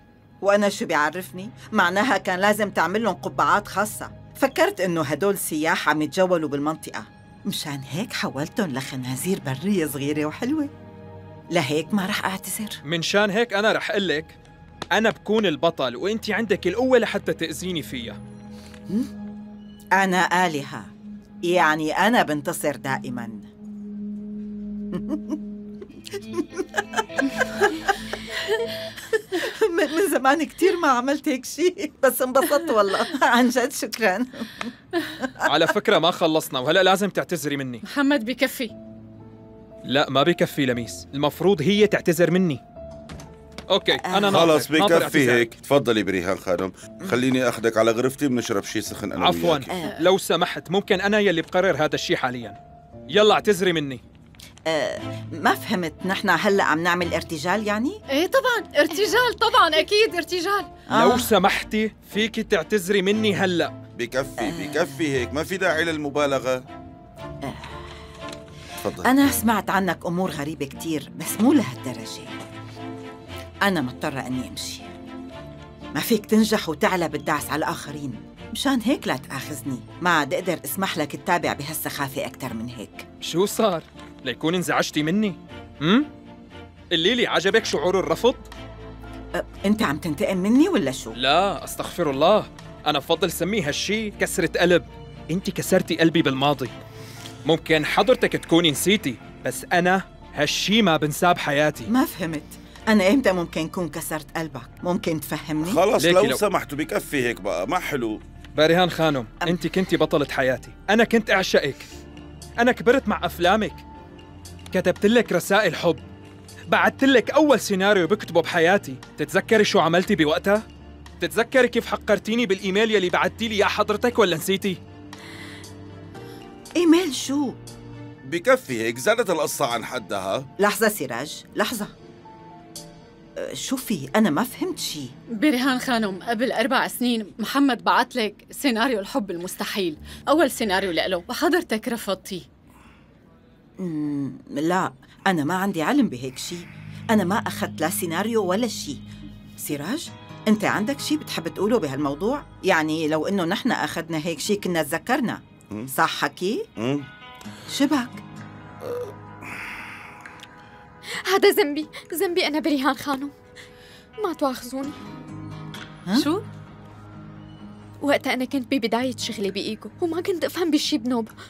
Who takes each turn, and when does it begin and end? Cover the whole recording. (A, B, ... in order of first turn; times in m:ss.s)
0:00.4-0:10.7 A
0:11.5-0:12.8 A
0:12.9-0:14.4 B
0:14.9-0:18.2 B
0:19.9-0:20.9 A
0:21.4-0:23.4 A
0:24.9-0:25.4 A
0:26.2-0:26.8 A
0:27.6-0:27.8 A
0:29.3-0:34.7 A
0:35.2-0:35.5 A
0:35.5-0:37.8 B
0:37.8-0:38.7 C
0:39.9-0:42.6 B
0:43.7-0:45.5 B
0:44.0-0:44.6 A
0:44.2-0:49.8 D
0:49.2-0:52.6 B
0:53.1-0:54.0 B
0:54.7-0:58.0 A
0:58.1-1:00.7 C
1:00.9-1:01.3 A
1:01.0-1:03.7 B
1:04.0-1:06.6 D
1:04.4-1:05.0 A
1:07.4-1:07.8 A
1:08.8-1:09.4 D
1:09.0-1:12.3 A
1:13.6-1:14.8 A
1:15.9-1:23.0 A
1:23.2-1:26.1 B
1:26.9-1:28.5 B
1:29.4-1:31.1 A
1:31.2-1:36.7 B
1:37.4-1:41.8 B
1:41.9-1:45.8 A
1:45.6-1:48.2 D
1:46.0-1:46.4 B
1:48.6-1:51.8 B
1:52.6-1:53.8 B
1:54.7-1:56.0 B
1:56.7-2:00.6 B
2:01.2-2:04.8 B
2:06.8-2:07.6 A
2:08.2-2:10.4 D
2:10.6-2:11.9 A
2:13.4-2:15.1 A
2:15.4-2:22.4 C
2:23.8-2:29.0 A
2:29.6-2:35.4 A
2:35.9-2:36.6 A
2:36.8-2:37.1 D
2:37.7-2:38.2 A
2:41.3-2:43.3 E
2:44.2-2:45.0 E
2:46.1-2:46.3 A
2:48.0-2:51.3 E